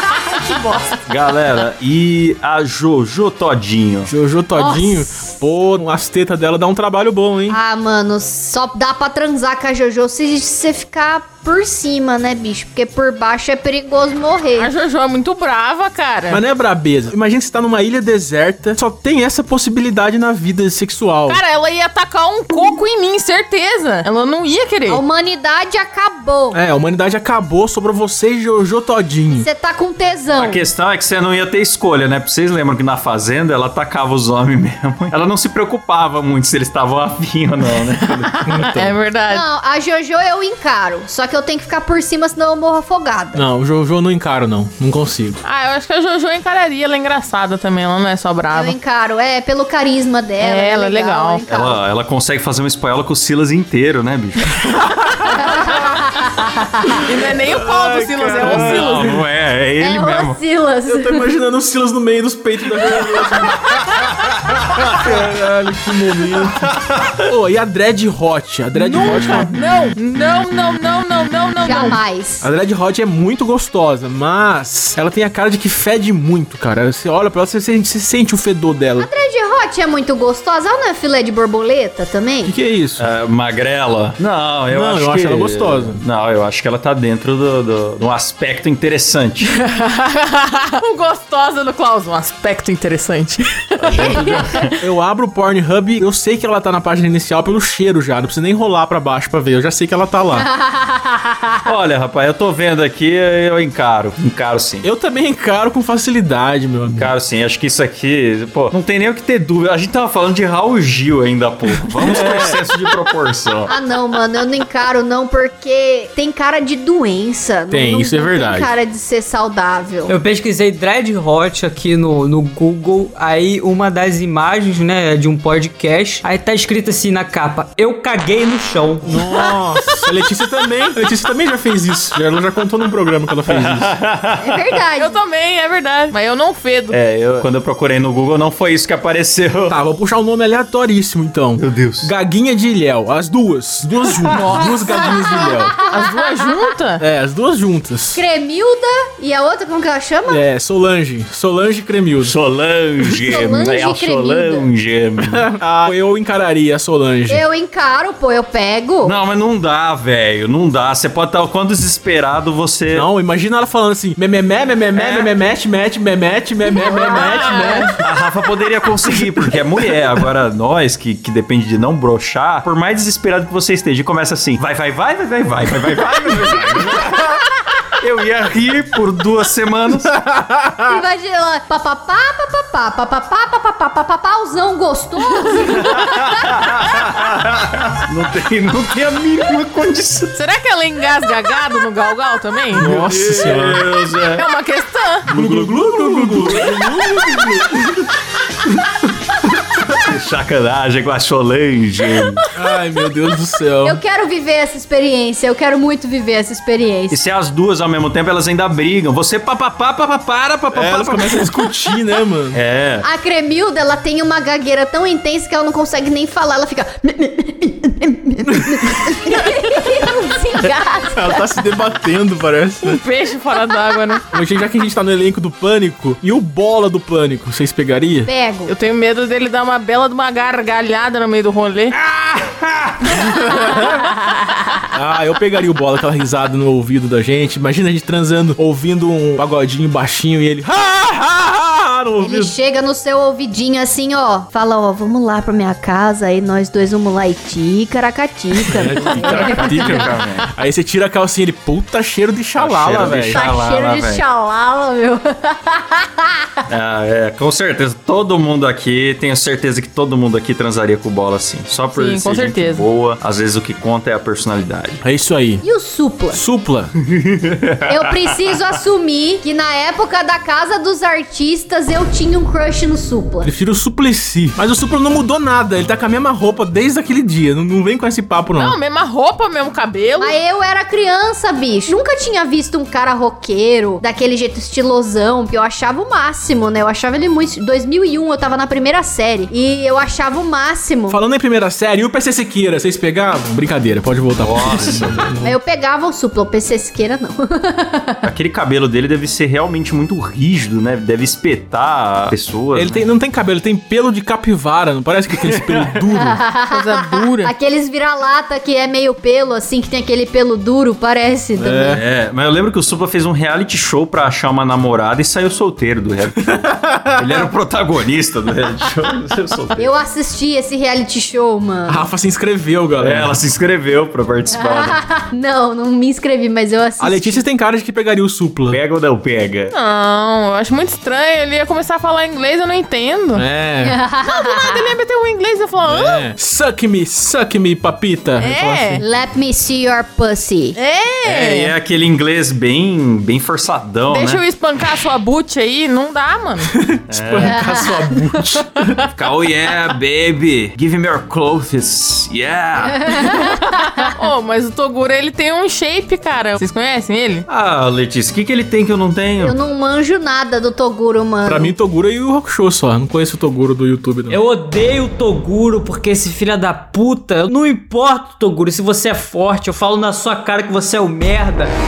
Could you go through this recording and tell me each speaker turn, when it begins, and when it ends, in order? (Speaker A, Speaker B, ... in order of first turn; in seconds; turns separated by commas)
Speaker A: 0.4-0.9, Speaker B: 1.1-4.1, Speaker C: 4.0-7.6, Speaker A: 4.6-4.9, Speaker A: 7.5-14.7, Speaker D: 14.6-16.4, Speaker C: 16.3-21.4, Speaker D: 21.3-25.0, Speaker A: 24.9-26.6, Speaker C: 26.5-29.5, Speaker A: 29.3-30.6, Speaker B: 30.4-38.5, Speaker D: 38.1-39.5, Speaker C: 38.4-39.0, Speaker A: 39.3-43.4, Speaker C: 43.3-45.4, Speaker D: 45.4-48.8, Speaker A: 48.5-51.8, Speaker D: 50.4-51.4, Speaker B: 51.5-54.7, Speaker A: 55.3-57.1, Speaker D: 57.0-59.2, Speaker C: 57.4-59.2, Speaker B: 58.4-60.4, Speaker A: 59.8-61.2, Speaker C: 60.9-63.7, Speaker B: 64.6-65.3, Speaker C: 64.8-69.6, Speaker D: 68.7-72.0, Speaker A: 71.6-72.5, Speaker C: 71.7-79.1, Speaker A: 79.0-82.5, Speaker C: 82.4-83.0, Speaker B: 83.0-89.6, Speaker C: 84.7-86.0, Speaker D: 89.5-94.7, Speaker B: 93.8-94.7, Speaker C: 94.8-100.5, Speaker A: 100.3-101.6, Speaker B: 101.6-104.8, Speaker C: 104.8-107.1, Speaker B: 106.9-113.7, Speaker C: 112.0-112.6, Speaker A: 113.7-120.1, Speaker C: 117.7-118.7, Speaker E: 120.1-129.2, Speaker C: 129.1-133.9, Speaker B: 133.5-134.8, Speaker A: 134.4-135.2, Speaker D: 135.0-137.0, Speaker B: 136.9-139.8, Speaker C: 139.7-145.8, Speaker B: 141.6-142.1, Speaker D: 144.3-145.1, Speaker A: 144.9-146.3, Speaker D: 145.8-147.0, Speaker C: 147.0-148.2, Speaker A: 148.1-150.4, Speaker C: 150.3-152.3, Speaker B: 152.2-155.4, Speaker A: 153.1-154.7, Speaker C: 155.3-157.4, Speaker A: 157.3-159.1, Speaker B: 159.0-163.1, Speaker C: 162.9-168.0, Speaker B: 164.9-165.3, Speaker A: 166.7-167.3, Speaker B: 168.0-180.2, Speaker C: 180.2-180.8, Speaker A: 180.9-186.5, Speaker B: 185.7-190.3, Speaker D: 190.3-192.8, Speaker B: 192.7-194.4, Speaker C: 192.7-193.8, Speaker D: 194.3-195.3, Speaker B: 195.2-197.8, Speaker C: 195.3-197.8, Speaker B: 200.0-202.4, Speaker C: 202.5-204.0, Speaker A: 203.8-207.2, Speaker B: 207.1-211.5, Speaker C: 210.7-212.6, Speaker B: 212.5-213.1, Speaker A: 213.0-221.5, Speaker C: 221.1-223.0, Speaker D: 222.8-224.2, Speaker C: 224.3-228.3, Speaker A: 228.2-228.7, Speaker D: 228.7-231.9, Speaker C: 232.1-232.6, Speaker C: 233.2-234.1, Speaker C: 234.9-242.5, Speaker A: 242.2-250.0, Speaker C: 248.7-253.4, Speaker B: 248.9-250.5, Speaker B: 252.6-254.2, Speaker A: 253.3-256.5, Speaker B: 256.7-265.0, Speaker D: 261.9-262.8, Speaker C: 265.0-265.6, Speaker A: 265.6-266.4, Speaker C: 266.3-266.9, Speaker B: 267.1-268.5, Speaker A: 267.9-273.5, Speaker C: 273.4-278.8, Speaker D: 278.6-280.4, Speaker A: 280.2-291.2, Speaker C: 291.1-295.6, Speaker B: 294.4-295.3, Speaker A: 295.4-298.2, Speaker B: 298.2-303.0, Speaker C: 302.7-306.4, Speaker B: 305.5-305.8, Speaker A: 306.1-312.0, Speaker D: 306.7-307.5, Speaker C: 311.6-312.0, Speaker B: 311.9-319.9, Speaker C: 316.5-317.2, Speaker A: 319.8-322.0, Speaker C: 321.9-323.4, Speaker B: 323.0-325.0, Speaker A: 324.5-327.4, Speaker C: 327.0-328.8, Speaker B: 328.7-329.7, Speaker D: 329.7-333.4, Speaker C: 333.3-334.0, Speaker A: 333.8-334.9, Speaker D: 334.2-336.3, Speaker C: 335.8-339.0, Speaker D: 338.4-339.0, Speaker A: 339.0-340.8, Speaker D: 340.8-341.7, Speaker B: 341.2-344.4, Speaker D: 344.1-346.7, Speaker C: 346.7-349.0, Speaker B: 347.1-347.7, Speaker A: 347.4-347.9, Speaker B: 349.1-353.2, Speaker A: 353.0-353.5, Speaker D: 353.3-357.4, Speaker B: 357.5-359.5, Speaker A: 359.4-361.7, Speaker C: 361.4-364.4, Speaker E: 364.3-371.7